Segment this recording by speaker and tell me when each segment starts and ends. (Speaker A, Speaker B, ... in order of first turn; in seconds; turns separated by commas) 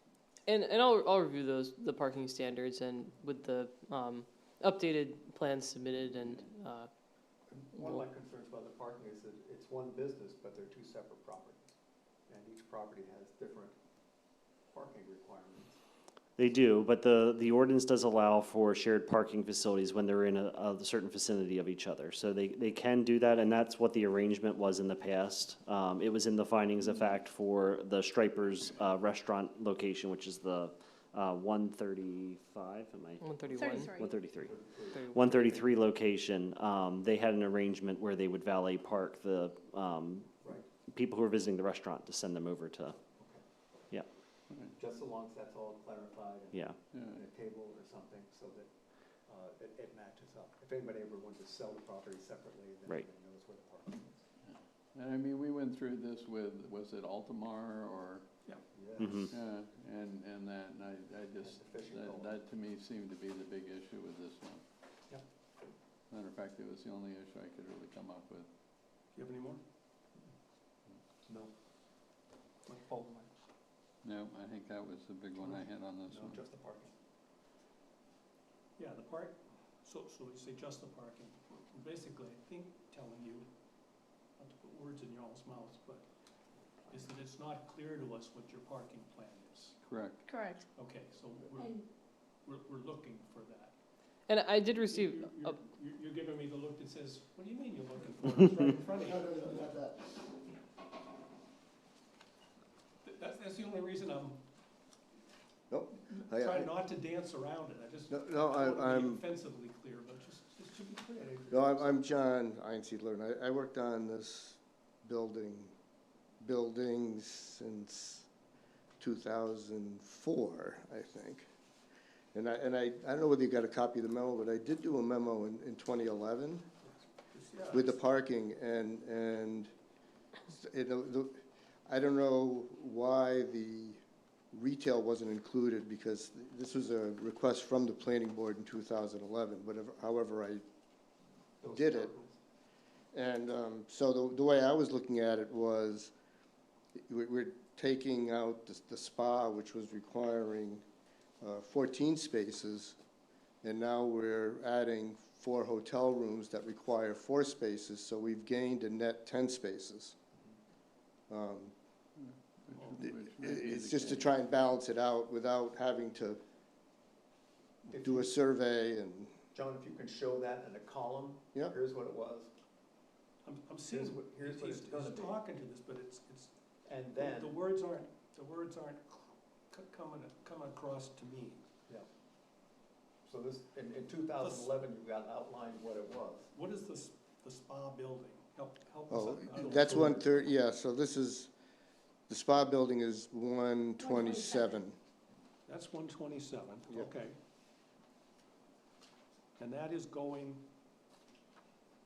Speaker A: 0.5-6.9, Speaker B: 6.1-6.5, Speaker C: 7.5-11.7, Speaker A: 7.7-8.0, Speaker C: 12.3-13.8, Speaker C: 14.6-15.8, Speaker D: 16.4-40.4, Speaker A: 33.2-33.9, Speaker E: 33.5-34.1, Speaker C: 34.4-35.4, Speaker A: 34.9-35.6, Speaker D: 40.9-43.0, Speaker C: 43.2-43.4, Speaker C: 44.7-48.7, Speaker B: 46.9-47.2, Speaker C: 49.2-54.2, Speaker B: 54.4-58.5, Speaker C: 58.7-59.3, Speaker D: 59.0-59.3, Speaker B: 59.3-64.6, Speaker C: 61.4-62.4, Speaker B: 66.1-68.5, Speaker F: 69.1-69.6, Speaker C: 71.2-71.5, Speaker C: 72.7-73.3, Speaker B: 74.0-76.4, Speaker C: 76.1-76.9, Speaker F: 78.8-83.5, Speaker F: 84.4-86.0, Speaker F: 86.9-89.8, Speaker B: 89.8-90.3, Speaker E: 90.3-90.6, Speaker F: 90.7-91.7, Speaker E: 91.5-91.8, Speaker F: 92.4-93.7, Speaker A: 94.3-95.6, Speaker F: 94.7-99.4, Speaker G: 99.0-100.2, Speaker F: 103.0-104.4, Speaker G: 105.7-106.7, Speaker F: 106.1-111.3, Speaker G: 108.1-109.2, Speaker C: 111.2-112.0, Speaker G: 111.5-115.7, Speaker G: 116.4-118.3, Speaker G: 119.0-121.5, Speaker G: 122.3-126.7, Speaker F: 126.8-127.9, Speaker G: 127.7-129.7, Speaker G: 130.5-134.0, Speaker G: 134.5-140.6, Speaker C: 141.6-142.4, Speaker G: 141.6-142.1, Speaker G: 143.1-146.1, Speaker G: 147.0-150.8, Speaker G: 151.4-153.0, Speaker G: 153.6-160.1, Speaker G: 161.3-161.7, Speaker B: 162.2-164.4, Speaker G: 163.3-166.4, Speaker C: 167.9-168.3, Speaker G: 167.9-169.3, Speaker C: 169.5-172.5, Speaker F: 173.4-176.5, Speaker C: 173.9-175.4, Speaker C: 176.8-177.5, Speaker F: 177.0-181.6, Speaker C: 183.2-186.5, Speaker F: 184.4-184.7, Speaker F: 186.5-190.4, Speaker G: 189.1-191.5, Speaker G: 192.3-195.0, Speaker E: 194.0-194.8, Speaker F: 195.7-197.3, Speaker F: 199.6-200.6